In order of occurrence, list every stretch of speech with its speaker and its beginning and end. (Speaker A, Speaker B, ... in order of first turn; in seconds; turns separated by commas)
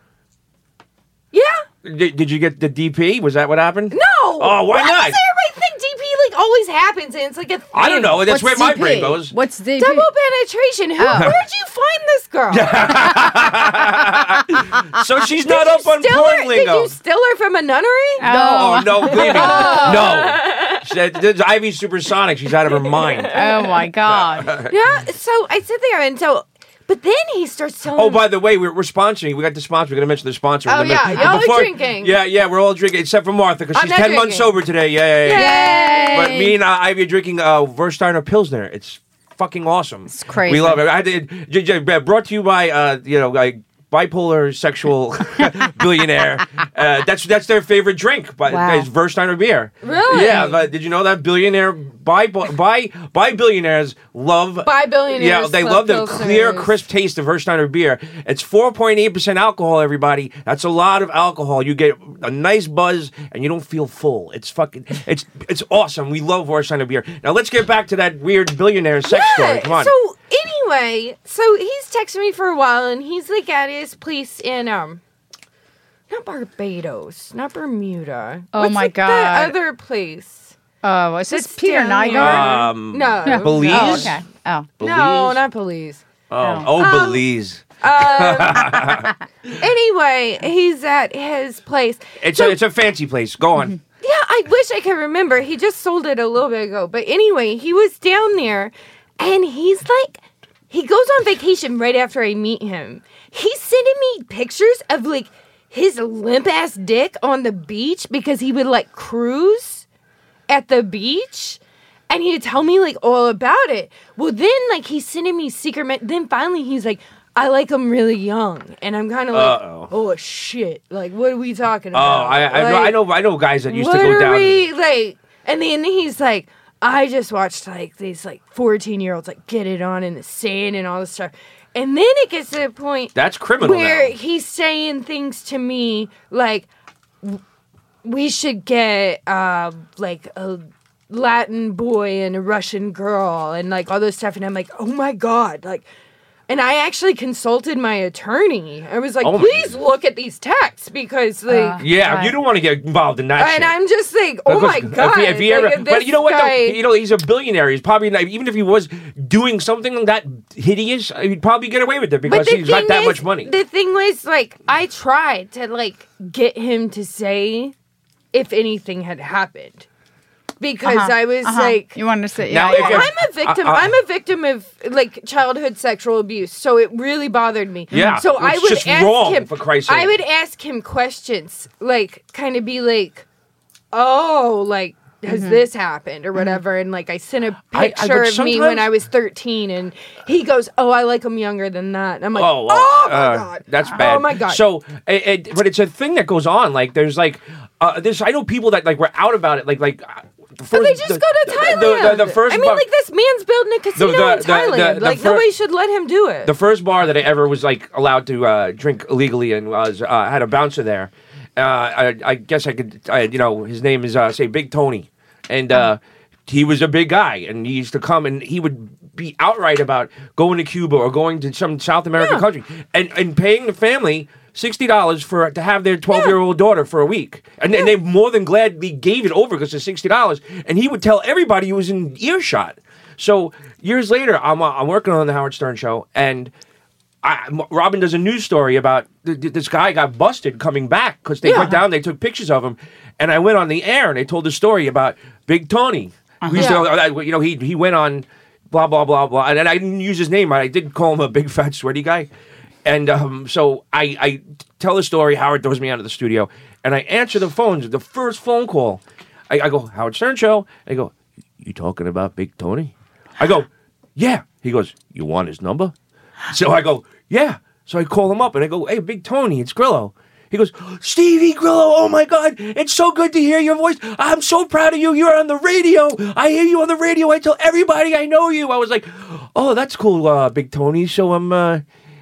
Speaker A: 1.3-1.6, Speaker B: 1.8-5.2, Speaker A: 3.9-8.2, Speaker B: 7.7-9.3, Speaker C: 8.2-10.1, Speaker A: 9.8-13.3, Speaker C: 11.0-11.3, Speaker B: 12.5-16.9, Speaker A: 15.4-18.3, Speaker C: 18.2-20.1, Speaker B: 18.2-23.4, Speaker A: 19.0-20.9, Speaker A: 22.7-23.7, Speaker C: 23.3-24.5, Speaker B: 24.0-24.8, Speaker A: 24.7-28.3, Speaker B: 27.9-69.9, Speaker A: 30.7-32.1, Speaker A: 33.7-34.5, Speaker A: 35.2-36.5, Speaker C: 35.3-36.4, Speaker C: 40.1-40.8, Speaker C: 48.5-48.9, Speaker A: 49.8-50.5, Speaker C: 50.2-50.5, Speaker A: 54.6-56.8, Speaker A: 69.0-75.0, Speaker A: 76.1-80.5, Speaker C: 78.5-79.5, Speaker C: 80.8-82.7, Speaker A: 81.3-84.1, Speaker B: 82.1-84.2, Speaker C: 83.2-84.7, Speaker B: 84.8-85.4, Speaker A: 84.8-86.0, Speaker B: 86.3-89.5, Speaker C: 86.4-86.7, Speaker A: 86.7-87.2, Speaker A: 87.8-88.9, Speaker A: 89.5-92.6, Speaker B: 92.2-93.8, Speaker A: 94.0-109.8, Speaker A: 110.5-123.0, Speaker B: 119.3-119.9, Speaker B: 121.9-124.6, Speaker A: 123.7-136.7, Speaker B: 133.1-134.1, Speaker A: 138.0-145.8, Speaker A: 146.5-151.8, Speaker B: 149.2-149.8, Speaker C: 151.5-152.4, Speaker B: 151.8-153.7, Speaker A: 153.4-156.8, Speaker B: 154.4-163.5, Speaker A: 162.2-167.7, Speaker A: 168.3-169.8, Speaker A: 170.6-172.0, Speaker C: 170.8-173.1, Speaker B: 172.5-173.9, Speaker A: 172.7-183.2, Speaker B: 177.9-180.2, Speaker C: 177.9-178.2, Speaker A: 183.9-194.6, Speaker C: 185.3-185.6, Speaker B: 187.7-188.9, Speaker B: 192.3-202.8, Speaker A: 200.7-206.5, Speaker B: 203.9-205.4, Speaker B: 206.4-236.5, Speaker A: 222.2-222.4, Speaker B: 237.2-252.3, Speaker A: 241.4-241.8, Speaker C: 246.4-246.8, Speaker A: 246.5-246.8, Speaker B: 252.8-265.9, Speaker B: 266.5-281.8